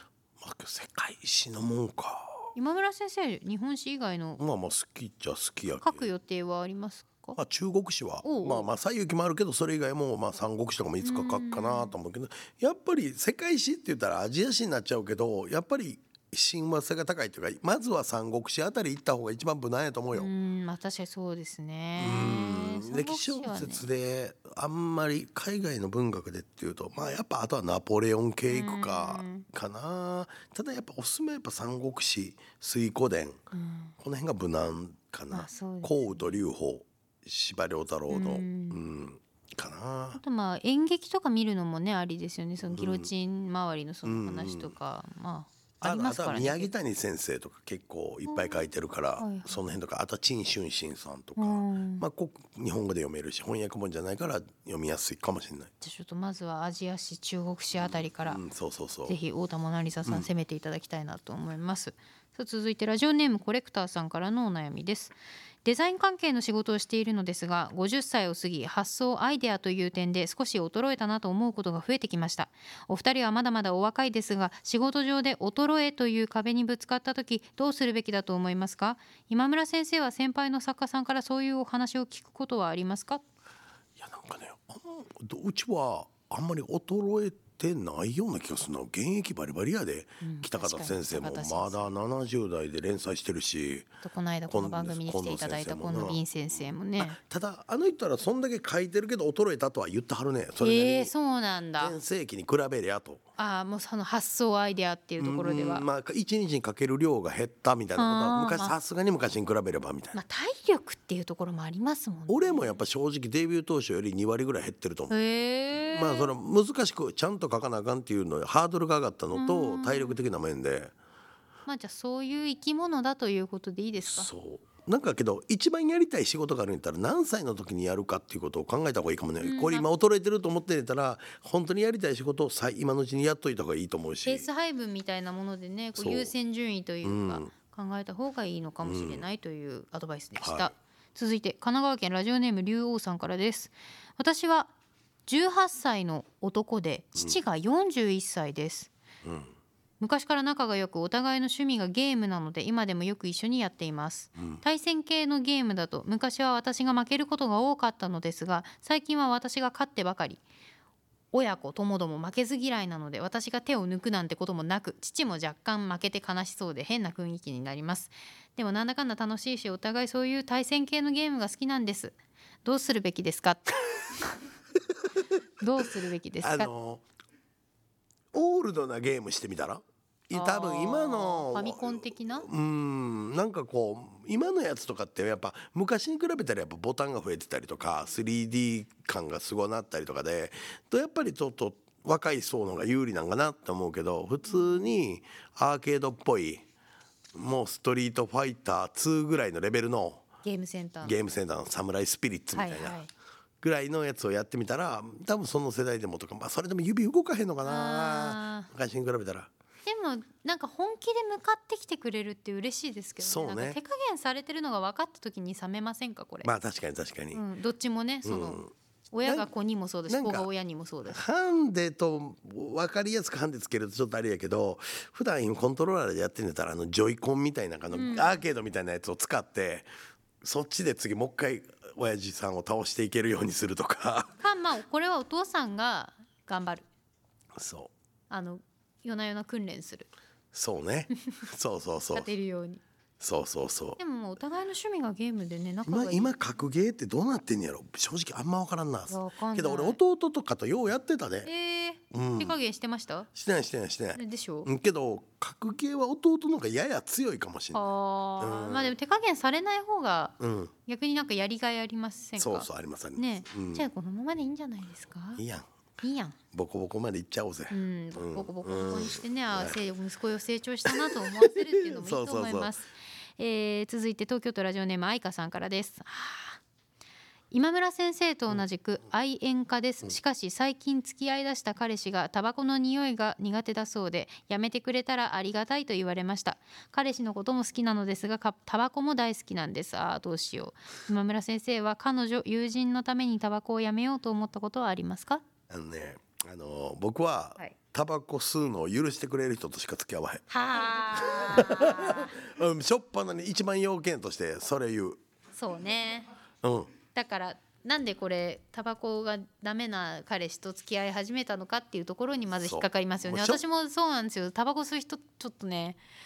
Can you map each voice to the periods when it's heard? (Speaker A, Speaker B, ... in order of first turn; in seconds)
Speaker A: 0.4-2.5, 4.4-6.1, 7.3-20.3, 22.0-33.4, 34.0-40.2, 42.6-43.1, 44.0-44.7, 45.8-55.7, 57.7-59.2, 84.0-93.9, 94.5-96.2, 97.0-101.1, 101.8-103.2, 105.2-110.2, 112.3-115.1, 115.9-120.9, 124.0-134.5, 135.9-136.3, 137.0-137.5, 138.8-139.2, 140.4-140.7, 149.2-149.5, 154.3-154.6, 176.4-177.0, 178.3-196.6, 197.3-200.2, 201.0-203.0, 203.6-209.5, 213.2-213.8, 216.4-217.4, 218.2-218.7, 219.2-219.5, 220.1-220.5, 221.1-229.9, 230.4-234.3, 237.5-237.9, 240.5-242.3, 243.2-244.0, 245.8-251.5, 252.1-252.6, 253.3-257.8, 258.4-258.9, 260.4-260.7, 262.4-263.9, 265.4-265.7, 266.5-269.8, 270.8-272.7, 295.7-300.5, 301.0-305.2, 306.6-306.9, 312.6-313.6
Speaker B: 2.5-4.4, 5.8-7.4, 8.2-8.7, 11.0-11.9, 20.1-23.8, 28.5-29.4, 33.5-33.9, 35.3-36.3, 38.1-38.8, 40.1-46.7, 48.3-49.6, 51.4-52.0, 55.8-58.4, 59.0-83.2, 90.2-91.9, 94.0-97.2, 100.6-102.0, 103.4-105.8, 108.0-108.7, 110.1-112.8, 115.1-116.3, 119.3-120.2, 121.7-124.3, 129.4-129.9, 134.2-144.7, 145.3-148.9, 150.0-160.4, 161.3-174.3, 175.6-176.7, 180.3-182.5, 194.4-194.9, 200.4-201.2, 202.5-203.1, 207.6-208.7, 209.8-216.5, 217.3-221.2, 227.9-228.3, 234.4-236.8, 238.3-240.1, 242.1-242.8, 244.0-246.3, 249.1-250.0, 251.4-253.3, 254.1-254.7, 257.7-265.4, 266.0-266.4, 267.7-276.6, 277.5-295.4, 300.5-302.4, 305.6-306.3, 307.1-316.0